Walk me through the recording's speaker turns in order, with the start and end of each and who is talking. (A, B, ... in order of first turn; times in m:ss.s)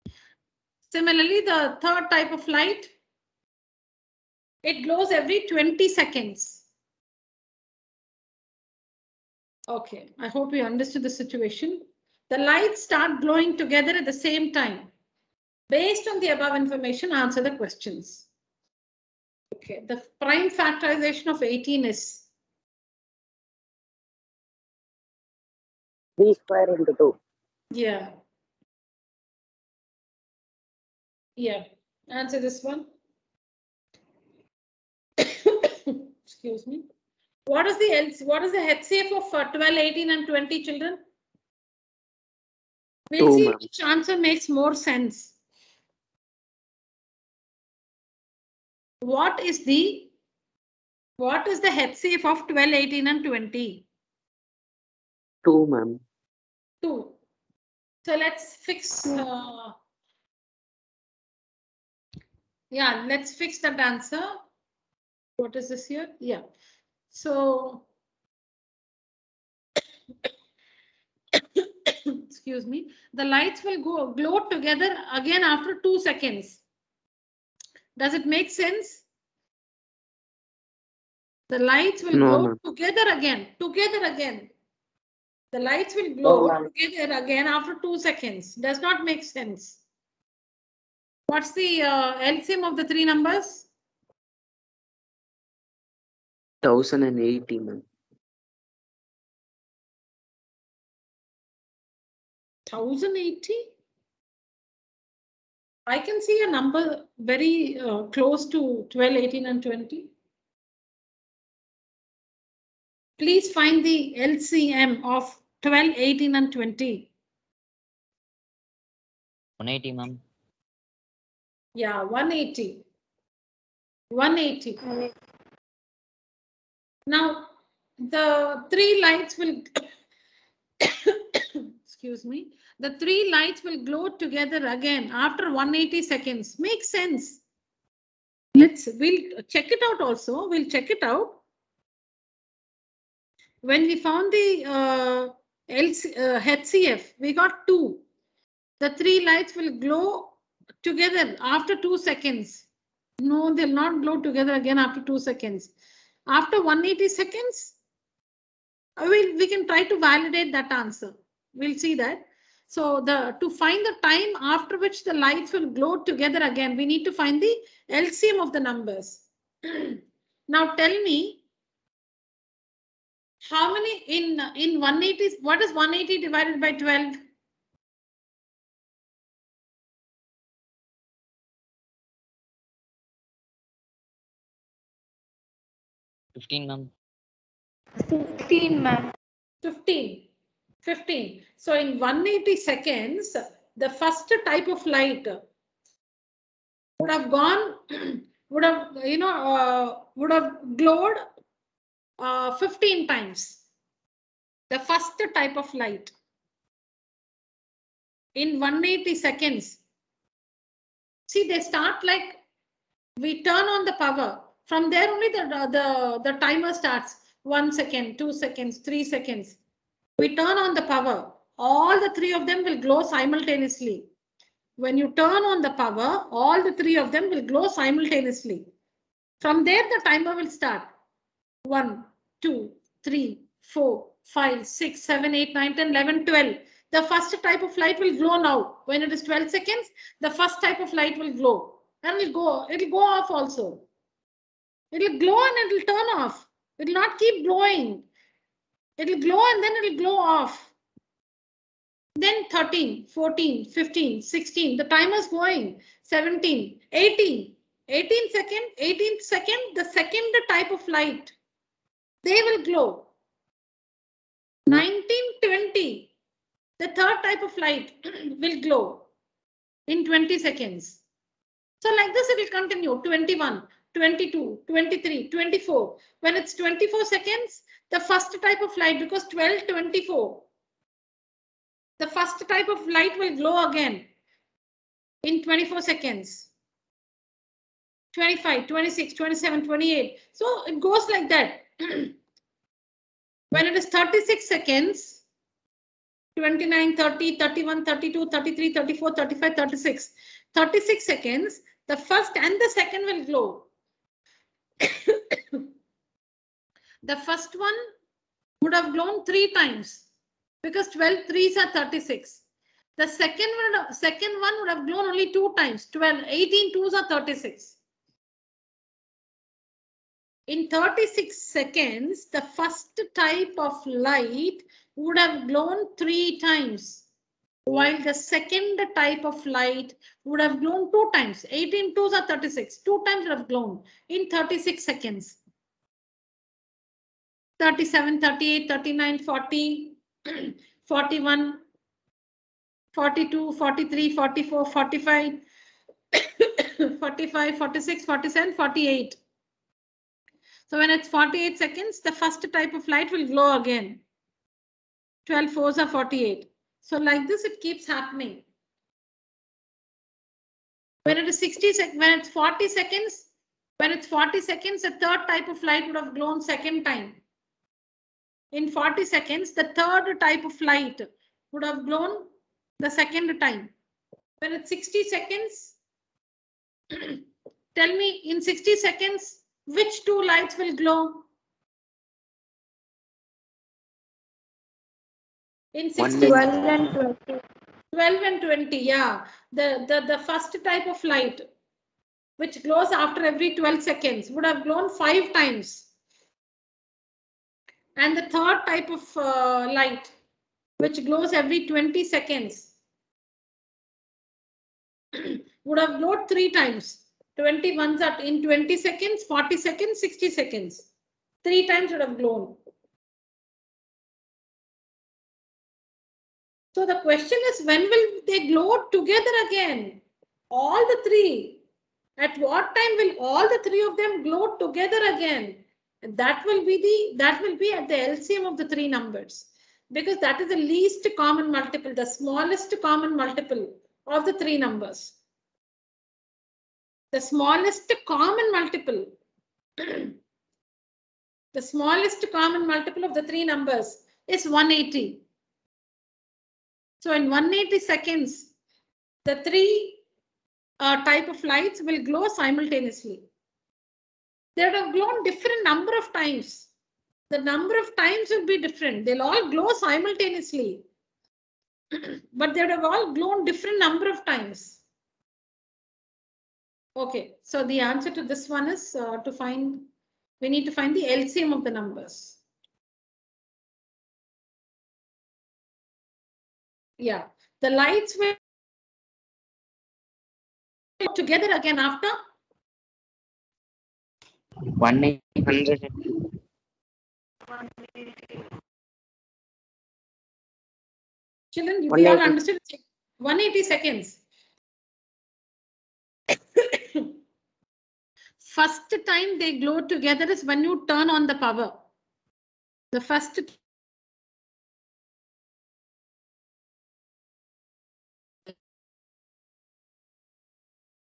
0:00.9-0:02.9 A
0:04.6-0:06.7 A
0:09.7-0:14.9 A
0:15.7-0:18.3 A
0:19.5-0:22.3 A
0:26.2-0:27.2 B
0:27.7-0:28.2 A
0:31.4-0:32.9 A
0:35.2-0:36.8 A
0:37.5-0:41.0 A
0:43.1-0:45.4 A
0:43.2-0:43.7 C
0:49.0-0:50.1 A
0:51.2-0:53.9 A
0:55.4-0:56.0 C
0:56.8-0:57.2 A
0:58.1-0:59.8 A
1:02.7-1:04.4 A
1:05.4-1:06.4 A
1:07.1-1:07.8 A
1:11.6-1:16.6 A
1:18.0-1:19.0 A
1:21.5-1:24.5 A
1:22.1-1:22.6 C
1:25.5-1:29.8 A
1:26.2-1:26.7 B
1:31.3-1:33.7 A
1:36.6-1:37.8 C
1:42.7-1:43.7 A
1:45.9-1:50.1 A
1:53.2-1:57.1 A
1:59.6-2:00.2 D
2:01.8-2:02.8 A
2:04.1-2:04.8 A
2:07.1-2:09.8 A
2:10.8-2:17.4 A
2:18.6-2:21.4 A
2:23.6-2:28.0 A
2:28.8-2:32.7 A
2:33.2-2:35.7 A
2:36.3-2:37.8 A
2:39.0-2:50.0 A
2:50.5-2:51.4 A
2:53.4-2:57.2 A
3:06.4-3:06.9 D
3:08.0-3:09.1 E
3:09.6-3:10.3 A
3:10.8-3:15.4 A
3:17.0-3:21.2 A
3:22.2-3:23.6 A
3:24.7-3:26.1 A
3:28.4-3:29.8 A
3:31.3-3:32.4 A
3:33.2-3:39.6 A
3:40.2-3:44.1 A
3:44.8-3:48.7 A
3:49.4-3:50.9 A
3:51.6-4:03.9 A
4:04.9-4:08.1 A
4:09.0-4:10.7 A
4:12.2-4:21.4 A
4:22.2-4:23.1 A
4:24.7-4:26.1 A
4:26.8-4:29.1 A
4:29.9-4:31.0 A
4:31.8-4:40.5 A
4:42.0-4:44.1 A
4:45.2-4:46.5 A
4:48.1-4:52.1 A
4:53.5-4:55.2 A
4:56.4-5:03.7 A
5:04.8-5:05.6 A
5:07.0-5:07.9 A
5:08.6-5:10.1 A
5:10.6-5:12.4 A
5:13.0-5:17.8 A
5:20.5-5:27.1 A
5:27.7-5:35.4 A
5:37.6-5:41.6 A
5:43.0-5:45.4 A
5:46.2-5:49.2 A
5:50.7-5:54.0 A
5:55.3-5:58.4 A
6:01.1-6:03.3 A
6:03.8-6:07.2 A
6:08.5-6:13.7 A
6:14.4-6:15.8 A
6:17.8-6:21.3 A
6:25.7-6:26.5 A
6:26.0-6:26.5 C
6:26.2-6:27.4 E
6:27.9-6:31.5 A
6:32.4-6:35.9 A
6:38.0-6:40.1 A
6:40.8-6:42.7 A
6:45.2-6:50.9 A
6:51.4-6:52.6 A
6:56.7-7:01.6 A
7:02.2-7:15.2 A
7:17.1-7:19.2 A
7:19.8-7:20.1 A
7:21.5-7:25.2 A
7:27.0-7:28.5 A
7:29.3-7:30.0 A
7:30.8-7:33.3 A
7:34.6-7:36.7 A
7:37.3-7:40.8 A
7:42.0-7:44.8 A
7:47.0-7:49.9 A
7:50.4-7:52.4 A
7:57.0-7:58.4 A
8:01.0-8:02.2 A
8:04.6-8:06.3 D
8:07.5-8:08.4 E
8:11.5-8:14.2 A
8:11.9-8:12.4 B
8:16.7-8:17.1 A
8:18.4-8:21.8 A
8:22.9-8:23.6 A